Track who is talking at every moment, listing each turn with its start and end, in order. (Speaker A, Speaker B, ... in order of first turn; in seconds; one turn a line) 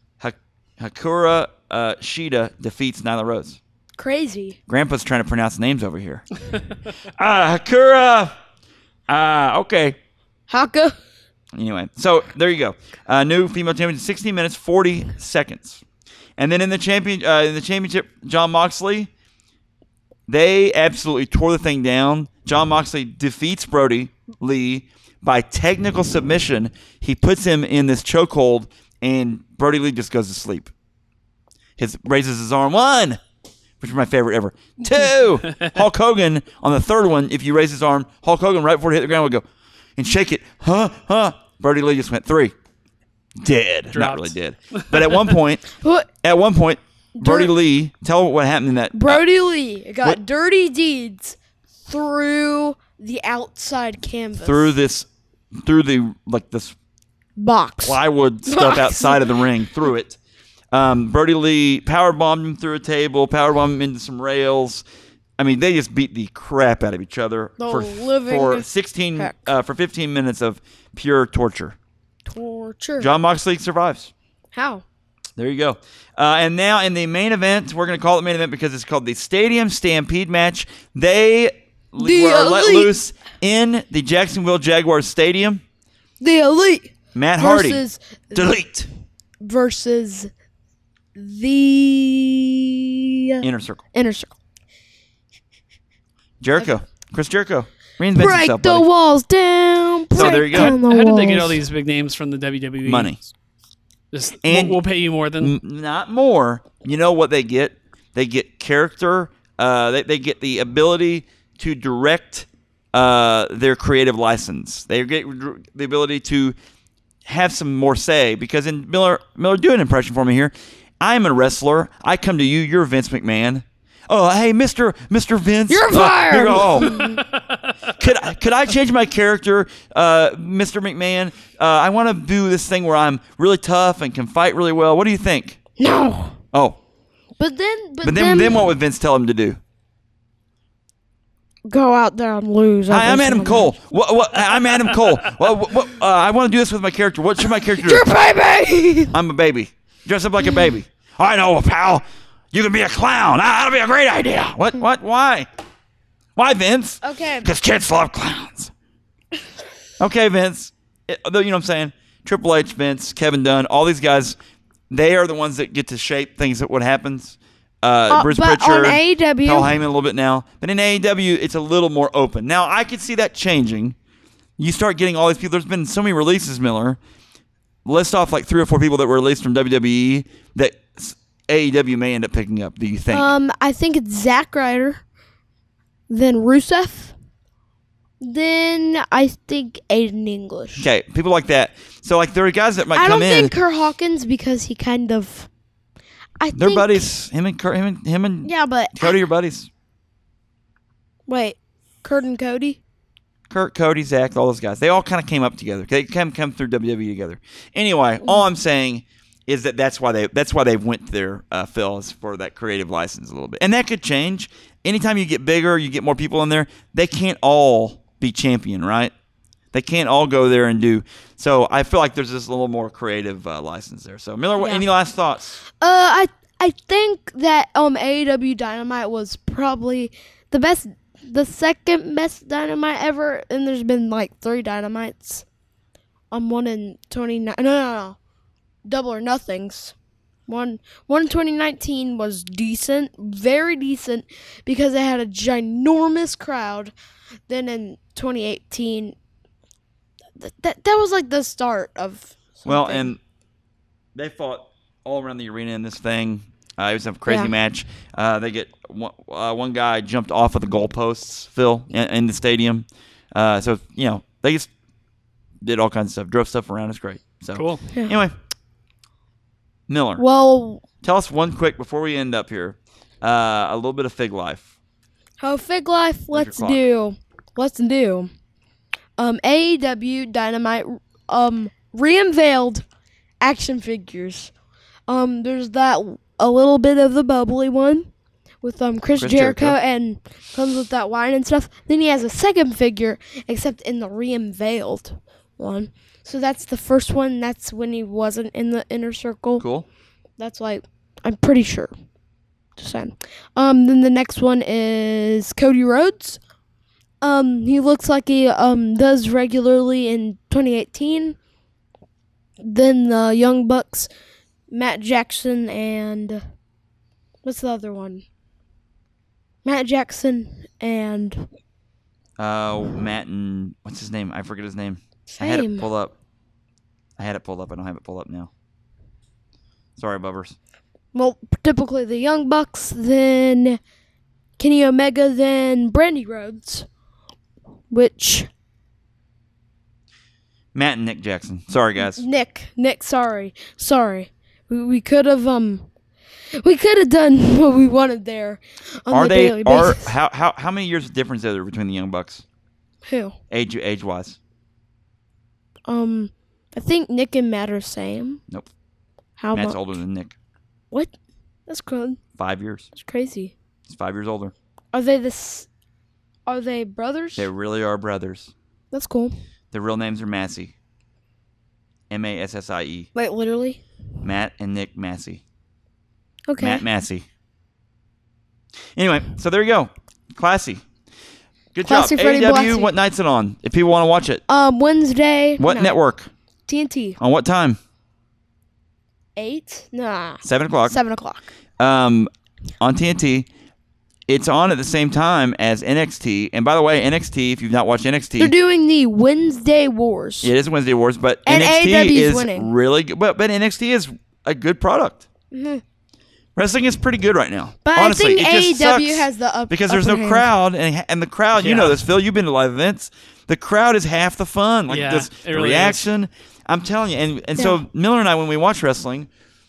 Speaker A: 0.2-3.6
Speaker B: 4.0-4.6
Speaker A: 4.7-6.2
Speaker A: 7.0-8.3
Speaker A: 9.1-10.0
Speaker B: 10.5-10.9
Speaker A: 11.5-15.8
Speaker A: 16.4-19.1
Speaker A: 20.3-30.7
Speaker A: 31.8-33.2
Speaker A: 33.8-39.4
Speaker A: 40.0-42.5
Speaker A: 43.4-45.7
Speaker C: 43.9-45.3
Speaker B: 45.8-46.1
Speaker A: 46.2-49.2
Speaker B: 47.2-47.5
Speaker B: 48.9-54.7
Speaker A: 54.4-56.7
Speaker B: 57.4-59.4
Speaker A: 57.8-60.2
Speaker A: 60.7-64.8
Speaker A: 65.4-71.8
Speaker B: 67.6-69.5
Speaker B: 72.2-73.1
Speaker A: 73.0-74.1
Speaker B: 74.5-74.8
Speaker A: 75.4-85.6
Speaker B: 82.0-82.9
Speaker B: 86.2-88.6
Speaker A: 87.1-88.9
Speaker B: 89.4-90.3
Speaker B: 91.1-92.7
Speaker B: 93.3-94.3
Speaker A: 93.4-93.8
Speaker A: 96.4-98.8
Speaker B: 98.1-101.6
Speaker A: 100.1-100.8
Speaker C: 100.2-103.1
Speaker A: 102.8-103.2
Speaker C: 104.1-105.6
Speaker A: 104.4-104.8
Speaker A: 105.4-116.5
Speaker A: 117.2-127.2
Speaker B: 125.7-127.2
Speaker C: 126.9-127.5
Speaker A: 128.0-135.6
Speaker B: 135.8-136.4
Speaker A: 136.5-136.8
Speaker B: 137.4-138.7
Speaker A: 138.0-139.6
Speaker B: 141.7-143.7
Speaker A: 142.9-148.1
Speaker B: 147.7-149.2
Speaker A: 149.1-155.5
Speaker A: 156.3-158.7
Speaker B: 157.0-157.5
Speaker A: 160.0-164.4
Speaker A: 164.9-173.9
Speaker B: 168.1-169.8
Speaker A: 174.6-177.0
Speaker A: 177.8-183.3
Speaker B: 183.1-185.0
Speaker B: 186.1-187.1
Speaker B: 188.2-190.9
Speaker A: 190.8-193.5
Speaker B: 192.9-195.5
Speaker B: 196.4-197.1
Speaker A: 196.5-199.7
Speaker B: 198.4-199.2
Speaker B: 201.3-202.8
Speaker A: 203.5-219.1
Speaker A: 219.7-225.6
Speaker B: 224.6-224.8
Speaker B: 225.8-235.4
Speaker B: 236.3-238.2
Speaker B: 238.8-239.9
Speaker B: 240.5-246.9
Speaker B: 247.5-249.2
Speaker B: 250.4-253.1
Speaker A: 252.7-253.2
Speaker A: 254.1-264.7
Speaker B: 257.2-257.5
Speaker A: 265.6-268.4
Speaker C: 267.5-267.8
Speaker B: 267.9-268.1
Speaker A: 269.9-270.2
Speaker B: 270.2-270.8
Speaker A: 271.0-274.7
Speaker B: 275.4-278.3
Speaker A: 276.3-276.8
Speaker B: 279.2-282.8
Speaker B: 283.4-284.5
Speaker B: 285.1-288.1
Speaker B: 288.6-299.6
Speaker A: 289.2-289.8
Speaker A: 299.6-299.9
Speaker B: 300.4-301.9
Speaker B: 302.8-306.4
Speaker B: 307.2-311.4
Speaker B: 312.6-314.1
Speaker B: 314.7-316.4
Speaker B: 317.4-318.2
Speaker B: 319.6-321.5
Speaker A: 322.4-326.1
Speaker B: 325.3-325.9
Speaker A: 327.2-328.5
Speaker A: 329.9-330.6
Speaker B: 331.1-333.8
Speaker B: 334.6-336.9
Speaker B: 337.9-338.5
Speaker A: 340.7-342.2
Speaker B: 342.0-345.9
Speaker B: 346.6-350.1
Speaker A: 349.1-352.4
Speaker B: 353.1-353.4
Speaker A: 353.5-354.4
Speaker B: 355.9-358.4
Speaker B: 359.4-359.9
Speaker A: 359.5-360.3
Speaker B: 361.7-362.2
Speaker A: 362.4-362.9
Speaker B: 362.9-363.5
Speaker A: 363.9-364.5
Speaker B: 364.9-365.7
Speaker B: 366.5-367.5
Speaker A: 367.4-368.5
Speaker B: 368.9-369.4
Speaker A: 369.7-370.7
Speaker A: 372.1-373.1
Speaker B: 373.1-373.8
Speaker A: 374.2-375.4
Speaker B: 376.5-376.8
Speaker A: 376.6-377.2
Speaker A: 378.9-380.8
Speaker A: 381.7-384.4
Speaker B: 381.8-382.9
Speaker B: 384.5-385.9
Speaker A: 385.6-386.3
Speaker B: 386.7-387.2
Speaker A: 387.2-387.8
Speaker B: 389.4-391.5
Speaker A: 390.4-391.0
Speaker A: 391.8-392.3
Speaker A: 392.8-393.5
Speaker A: 394.3-398.5
Speaker B: 398.4-400.5
Speaker A: 400.4-405.2
Speaker B: 401.4-402.7
Speaker B: 405.5-405.8
Speaker A: 406.6-419.3
Speaker B: 407.8-410.5
Speaker C: 411.6-412.0
Speaker C: 414.9-416.1